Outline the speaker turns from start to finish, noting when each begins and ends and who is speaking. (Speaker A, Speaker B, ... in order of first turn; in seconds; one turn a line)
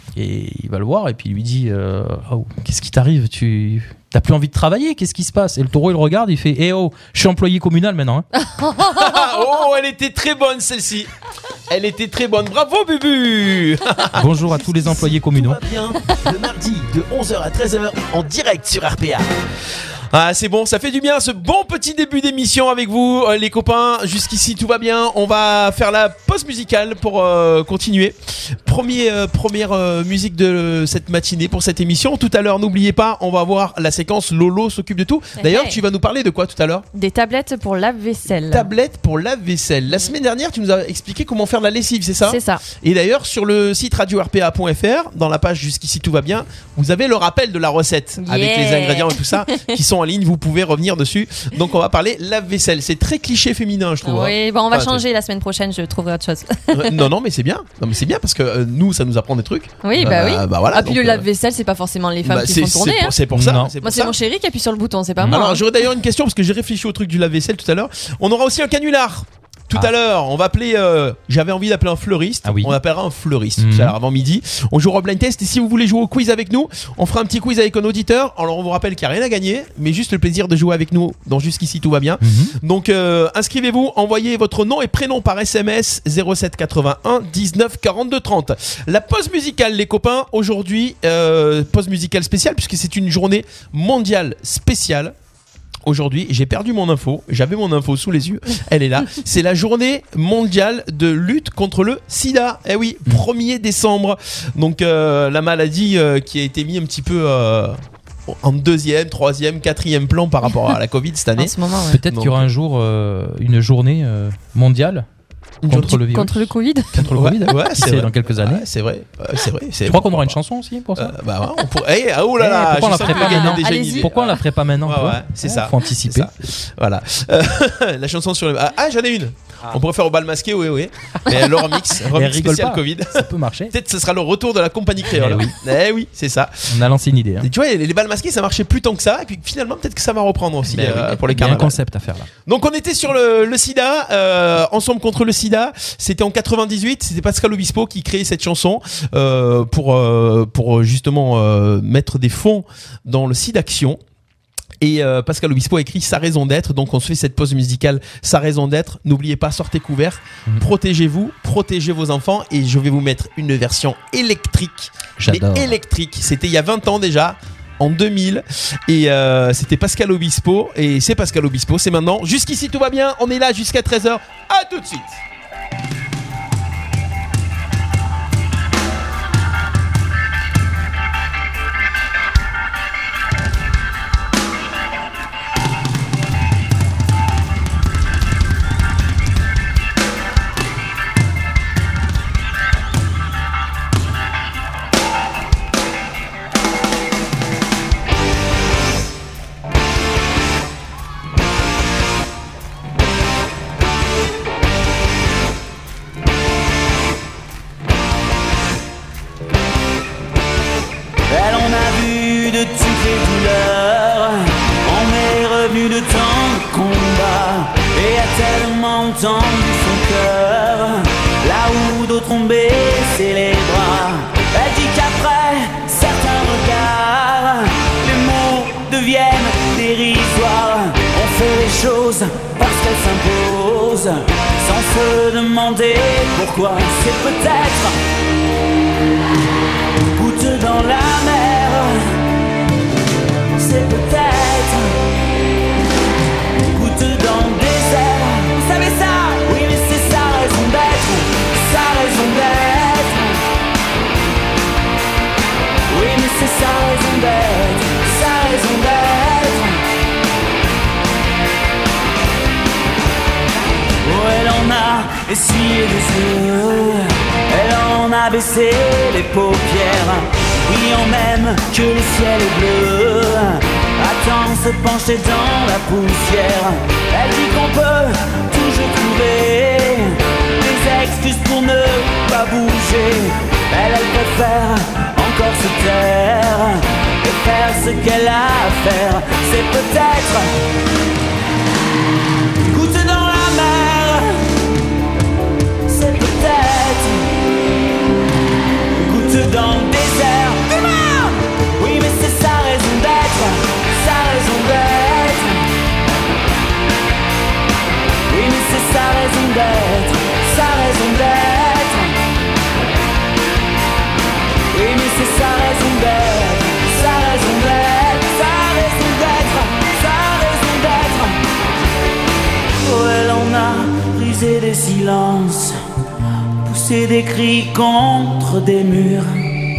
Speaker A: 0.1-8.3
Speaker B: 8.5-9.0
Speaker C: 8.8-11.1
Speaker C: 11.7-14.2
Speaker A: 14.1-15.6
Speaker D: 14.5-19.3
Speaker C: 20.1-36.9
Speaker B: 35.4-35.8
Speaker B: 36.9-38.7
Speaker C: 38.5-55.0
Speaker B: 42.2-42.6
Speaker B: 48.2-49.7
Speaker B: 54.0-57.0
Speaker C: 56.7-61.3
Speaker B: 59.8-63.2
Speaker C: 62.2-64.1
Speaker A: 63.3-63.8
Speaker B: 63.8-65.7
Speaker A: 65.2-65.5
Speaker C: 65.3-95.1
Speaker A: 72.5-72.8
Speaker A: 73.6-74.0
Speaker A: 82.2-82.6
Speaker C: 95.8-112.5
Speaker B: 111.4-112.0
Speaker A: 111.9-115.1
Speaker C: 115.6-116.0
Speaker A: 115.7-118.7
Speaker B: 116.0-116.9
Speaker C: 117.0-120.4
Speaker A: 119.8-121.2
Speaker C: 121.0-136.7
Speaker A: 122.4-126.3
Speaker B: 123.0-124.1
Speaker A: 132.1-133.7
Speaker A: 135.1-135.5
Speaker A: 136.7-137.5
Speaker C: 137.4-141.8
Speaker A: 140.7-142.3
Speaker C: 142.5-154.0
Speaker C: 154.8-175.2
Speaker A: 165.2-165.7
Speaker E: 211.3-238.0
Speaker E: 240.1-242.2
Speaker E: 243.6-245.0
Speaker E: 246.7-253.4
Speaker E: 255.9-259.8
Speaker E: 264.0-290.6
Speaker E: 292.6-294.5
Speaker E: 295.9-297.4
Speaker E: 298.9-305.6
Speaker E: 308.3-312.2
Speaker E: 314.7-321.4
Speaker E: 322.8-325.8
Speaker E: 326.6-329.5